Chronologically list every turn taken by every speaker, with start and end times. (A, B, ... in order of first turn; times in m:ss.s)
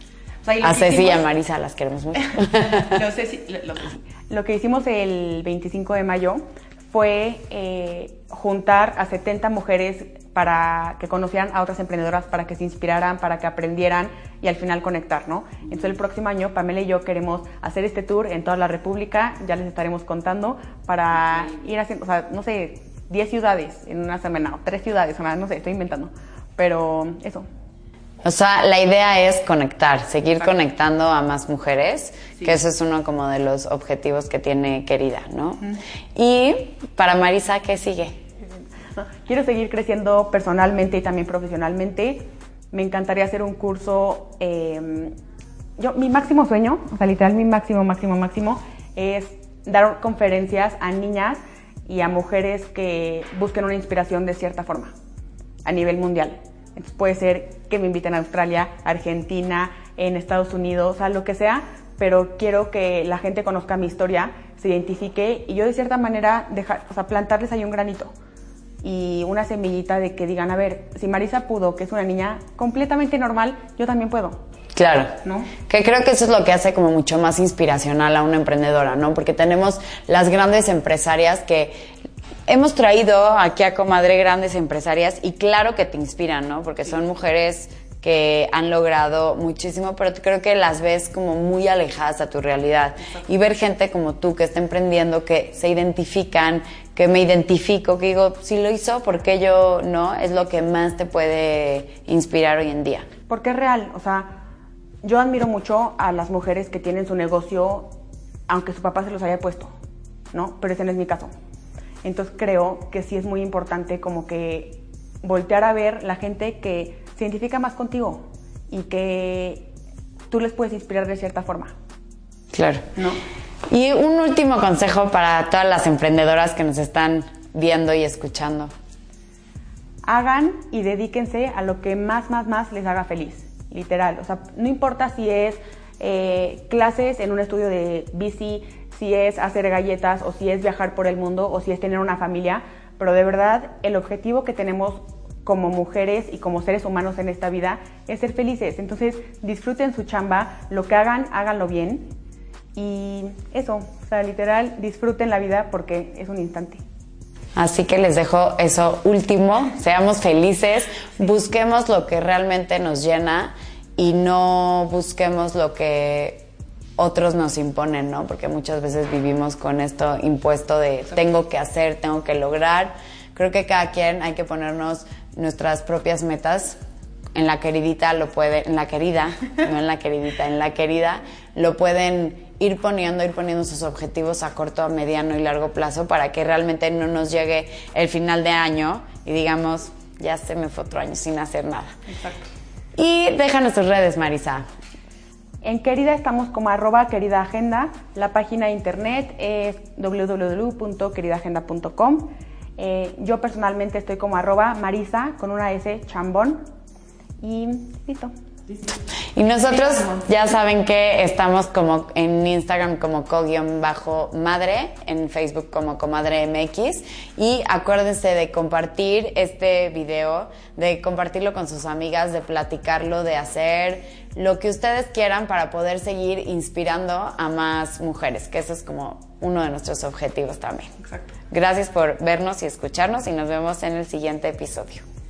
0:00.4-0:01.3 A
0:00.6-0:03.0 B
0:02.2-0:27.4 A
0:28.2-0:35.6 B
0:36.1-0:38.2 B
0:39.0-0:45.1 A
0:45.8-0:54.9 A
0:55.6-1:08.1 A
1:08.8-1:14.4 A
1:14.7-1:21.8 B
1:15.2-1:15.5 A
1:22.5-1:43.1 B
1:43.3-1:44.4 A
1:45.0-1:47.9 A
1:48.5-1:49.7 A
1:50.3-1:51.3 A
1:52.0-1:59.7 A
2:00.3-2:01.7 A
2:02.5-2:02.9 B
2:02.9-2:03.2 A
2:03.7-2:08.7 B
2:10.0-2:32.1 A
2:32.8-2:36.8 A
2:37.6-2:46.5 B
2:47.0-2:56.8 B
2:57.3-3:12.0 B
3:12.1-3:12.5 A
3:13.0-3:14.6 B
3:15.6-3:26.6 A
3:27.4-3:28.3 A
3:28.8-3:50.9 B
3:51.0-3:51.3 A
3:51.5-3:55.0 B